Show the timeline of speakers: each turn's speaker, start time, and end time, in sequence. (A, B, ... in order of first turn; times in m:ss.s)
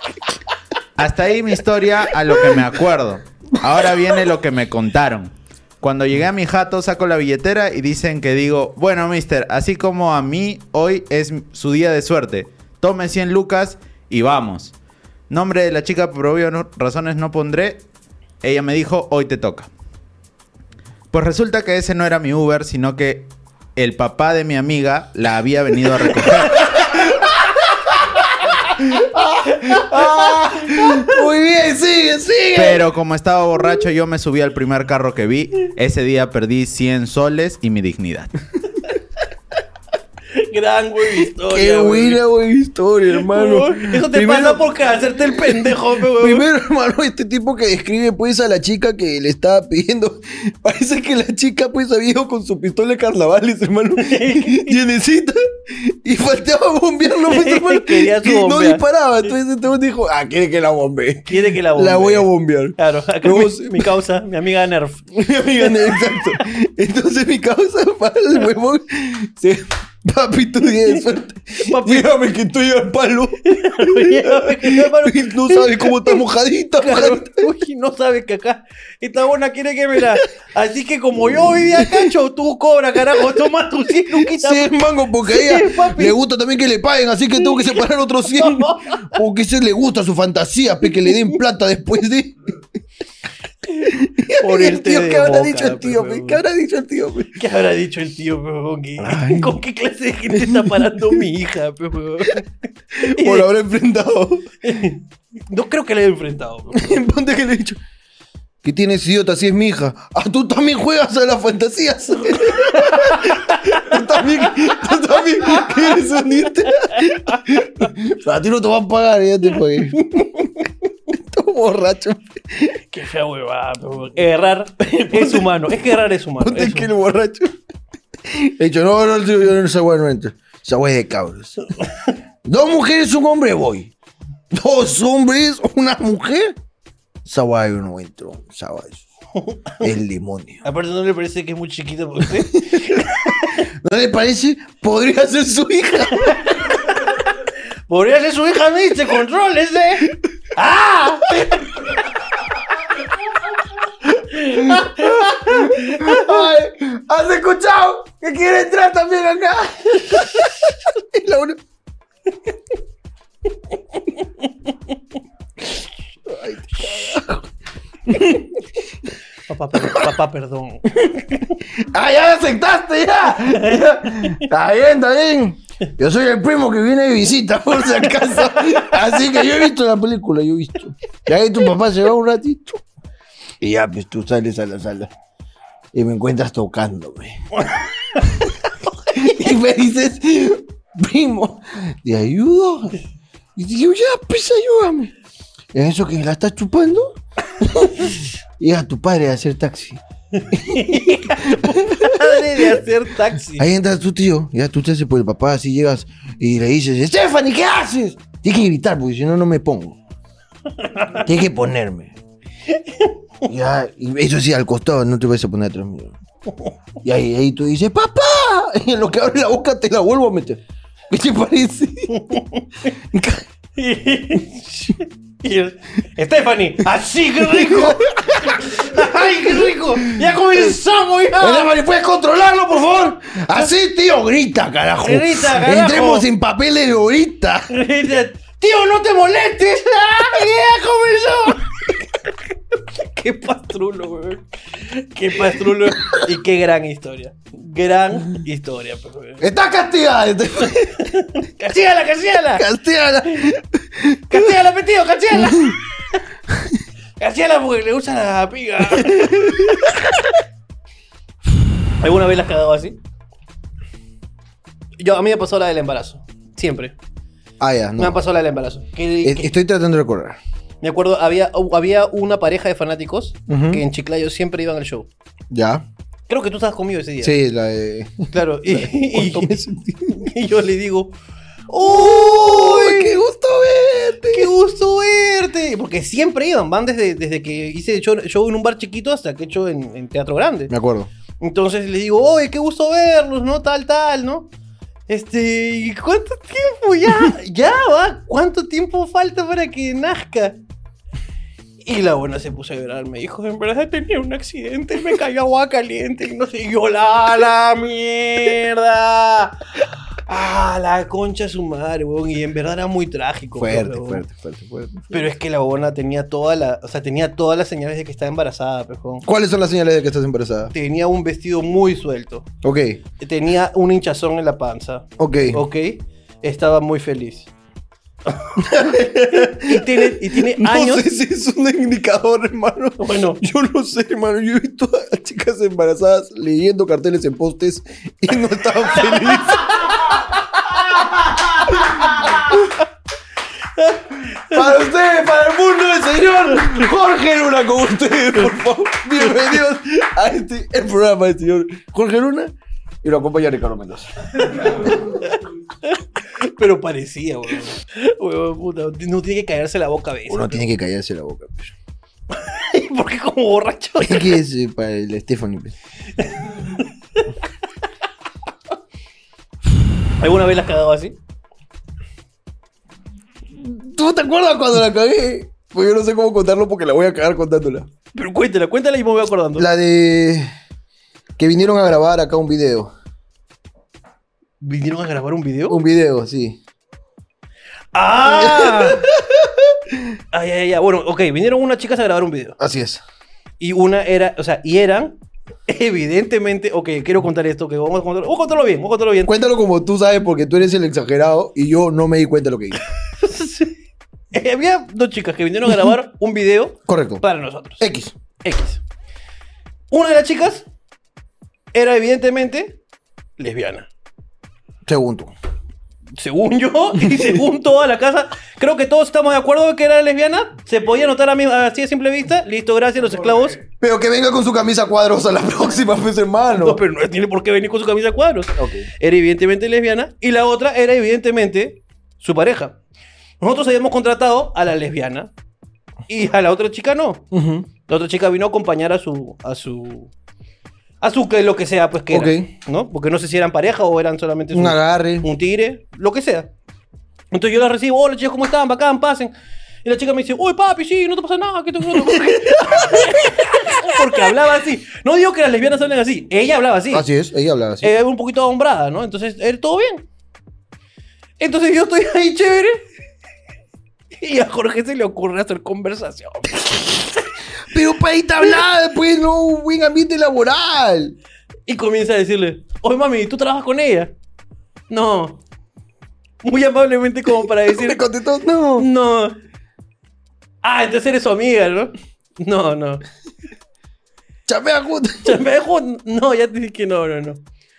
0:01.0-0:14.8 A
0:15.3-0:17.8 A
0:18.4-0:19.7 A
0:21.1-0:26.7 A
0:26.2-0:32.8 B
0:29.6-0:31.2 C
0:32.5-0:38.3 A
0:40.3-0:42.2 C
0:41.1-1:03.9 B
0:43.1-0:46.5 C
0:54.0-0:54.8 C
0:57.1-0:58.8 C
1:01.3-1:06.2 C
1:05.2-1:17.5 B
1:11.6-1:12.1 C
1:13.4-1:16.2 C
1:16.8-1:26.2 C
1:21.3-1:22.1 B
1:24.1-1:32.5 B
1:28.3-1:29.2 C
1:33.8-1:36.4 C
1:33.8-1:37.4 B
1:37.4-1:42.5 C
1:39.0-1:39.6 B
1:40.3-1:41.2 B
1:43.0-1:44.5 B
1:43.0-1:43.5 C
1:44.6-1:47.0 C
1:46.7-1:47.8 B
1:48.6-2:00.2 B
1:52.5-1:54.3 C
1:55.4-1:56.0 C
1:56.6-1:57.6 C
2:00.0-2:00.5 C
2:01.1-2:02.8 B
2:02.9-2:06.9 C
2:04.9-2:07.5 B
2:08.2-2:11.6 B
2:12.4-2:13.9 B
2:14.5-2:16.6 B
2:17.2-2:19.0 B
2:19.4-2:19.6 C
2:19.8-2:20.6 B
2:20.6-2:23.6 C
2:22.4-2:27.0 B
2:26.3-2:32.1 C
2:34.0-2:41.6 B
2:34.2-2:36.4 C
2:46.3-2:47.5 B
2:48.1-2:48.6 B
2:49.5-2:51.5 C
2:51.8-3:02.8 B
2:53.5-2:54.4 C
2:58.2-2:58.9 C
3:03.6-3:05.1 B
3:05.9-3:07.4 B
3:07.6-3:08.3 C
3:09.1-3:13.0 B
3:13.6-3:15.1 B
3:15.7-3:22.8 B
3:20.4-3:23.7 C
3:23.6-3:30.0 B
3:30.8-3:31.2 C
3:31.2-3:32.2 B
3:32.7-3:33.1 C
3:33.5-3:36.2 B
3:37.0-3:40.6 B
3:41.1-3:42.2 B
3:42.1-3:42.9 C
3:43.0-3:43.4 B
3:43.8-3:51.7 C
3:47.4-3:50.7 B
3:51.4-3:57.7 B
3:55.0-3:56.3 C
3:57.7-4:09.5 C
4:05.5-4:06.2 B
4:09.4-4:11.1 B
4:11.0-4:12.7 C
4:12.5-4:14.6 B
4:14.3-4:15.8 C
4:15.3-4:15.8 B
4:16.5-4:16.8 B
4:17.2-4:20.0 C
4:18.9-4:20.0 B
4:22.0-4:23.0 C
4:25.0-4:27.0 C
4:27.6-4:28.2 B
4:28.0-4:29.5 C
4:29.2-4:30.4 B
4:30.8-4:35.1 C
4:33.5-4:33.8 B
4:35.5-4:35.8 B
4:36.3-4:37.4 C
4:37.2-4:40.3 B
4:38.3-4:39.6 C
4:40.1-4:41.1 C
4:41.7-4:43.1 C
4:41.8-4:44.5 B
4:44.3-4:50.7 C
4:50.7-4:51.1 B
4:51.4-4:54.5 C
4:55.1-5:00.6 C
5:01.8-5:09.6 C
5:10.3-5:14.2 C
5:13.6-5:15.3 B
5:15.1-5:19.3 C
5:19.2-5:20.7 B
5:20.7-5:22.5 C
5:22.6-5:23.0 B
5:23.2-5:27.5 C
5:25.2-5:25.6 B
5:28.6-5:42.6 B
5:29.4-5:31.1 C
5:33.0-5:33.4 C
5:39.1-5:40.2 C
5:42.0-5:42.7 C
5:43.8-5:44.7 C
5:44.4-5:55.0 B
5:54.5-6:00.6 C
6:00.3-6:01.8 B
6:02.3-6:04.4 C
6:04.0-6:05.8 B
6:06.2-6:07.3 C
6:10.2-6:11.2 C
6:13.5-6:17.9 B
6:18.1-6:19.7 C
6:19.6-6:20.5 B
6:21.4-6:22.9 B
6:24.6-6:25.8 C
6:25.7-6:26.6 B
6:27.9-6:29.1 C
6:28.2-6:30.2 B
6:30.3-6:32.6 C
6:32.6-6:33.0 B
6:33.6-6:39.4 C
6:39.2-6:42.8 B
6:43.1-6:43.8 C
6:44.3-6:47.8 C
6:46.9-6:47.2 B
6:47.8-6:48.1 B
6:48.4-6:48.8 C
6:49.9-6:50.7 C
6:51.7-6:52.8 C
6:53.4-6:53.9 C
6:54.9-6:55.3 B
6:56.2-7:03.6 C
6:57.0-6:57.3 B
7:03.6-7:06.8 B
7:06.5-7:12.8 C
7:08.6-7:08.9 B
7:13.4-7:15.3 C
7:16.1-7:17.3 C
7:17.3-7:17.7 B
7:17.9-7:20.1 C
7:21.0-7:26.5 C
7:22.1-7:22.5 B
7:24.5-7:25.3 B
7:27.3-7:29.3 C
7:29.8-7:37.1 C
7:32.0-7:33.5 B
7:36.9-7:37.9 B
7:37.8-7:40.0 C
7:41.4-7:42.8 C
7:44.2-7:47.1 C
7:47.7-7:51.2 B
7:51.7-7:54.1 C
7:54.9-7:55.4 C
7:56.4-7:58.0 C
7:57.6-7:58.9 B
7:58.8-7:59.4 C
8:00.6-8:03.0 C
8:04.5-8:05.4 B
8:05.2-8:07.4 C